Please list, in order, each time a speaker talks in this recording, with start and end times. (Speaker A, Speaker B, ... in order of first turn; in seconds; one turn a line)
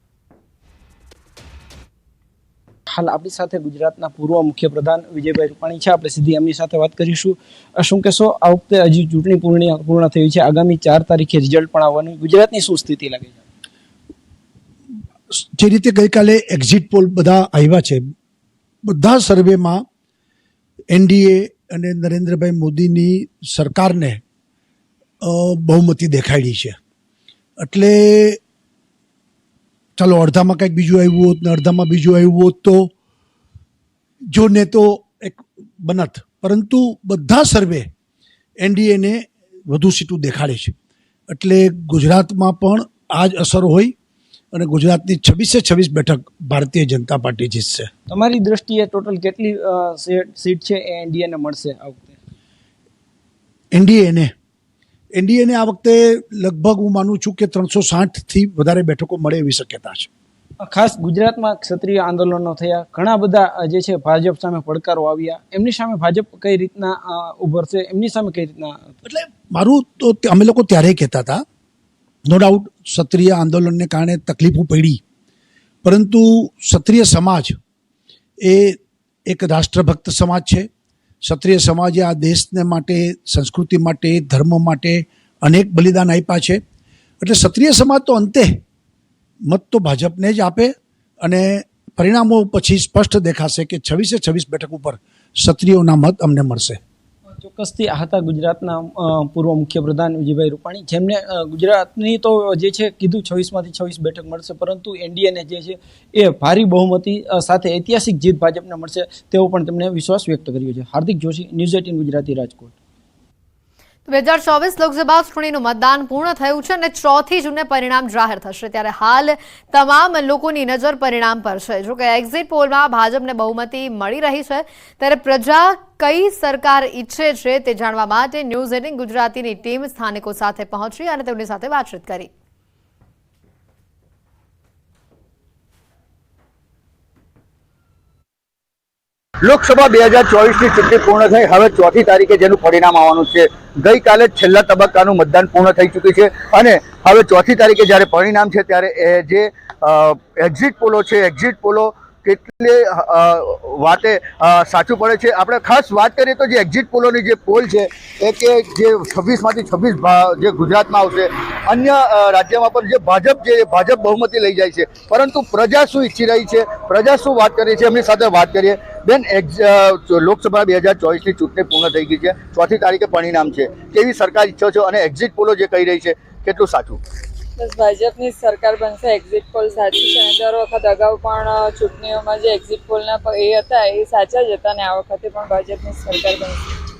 Speaker A: 2.9-13.4
Speaker B: 15.4-18.1
Speaker B: 18.9-19.8
Speaker B: 20.9-24.2
Speaker B: 25.2-26.8
Speaker B: 27.6-28.4
Speaker B: 30.0-32.9
Speaker B: 34.3-37.9
Speaker B: 38.6-40.7
Speaker B: 41.3-43.9
Speaker B: 44.5-47.9
Speaker A: 48.1-52.2
Speaker B: 53.7-54.3
Speaker B: 55.1-60.1
Speaker A: 60.6-68.9
Speaker B: 69.1-71.4
Speaker B: 72.3-75.0
Speaker B: 75.8-77.6
Speaker B: 78.4-80.7
Speaker B: 81.2-86.6
Speaker B: 87.2-88.6
Speaker B: 89.5-96.8
Speaker A: 97.3-112.7
Speaker C: 114.1-132.3
Speaker D: 139.4-177.0
Speaker E: 177.6-186.7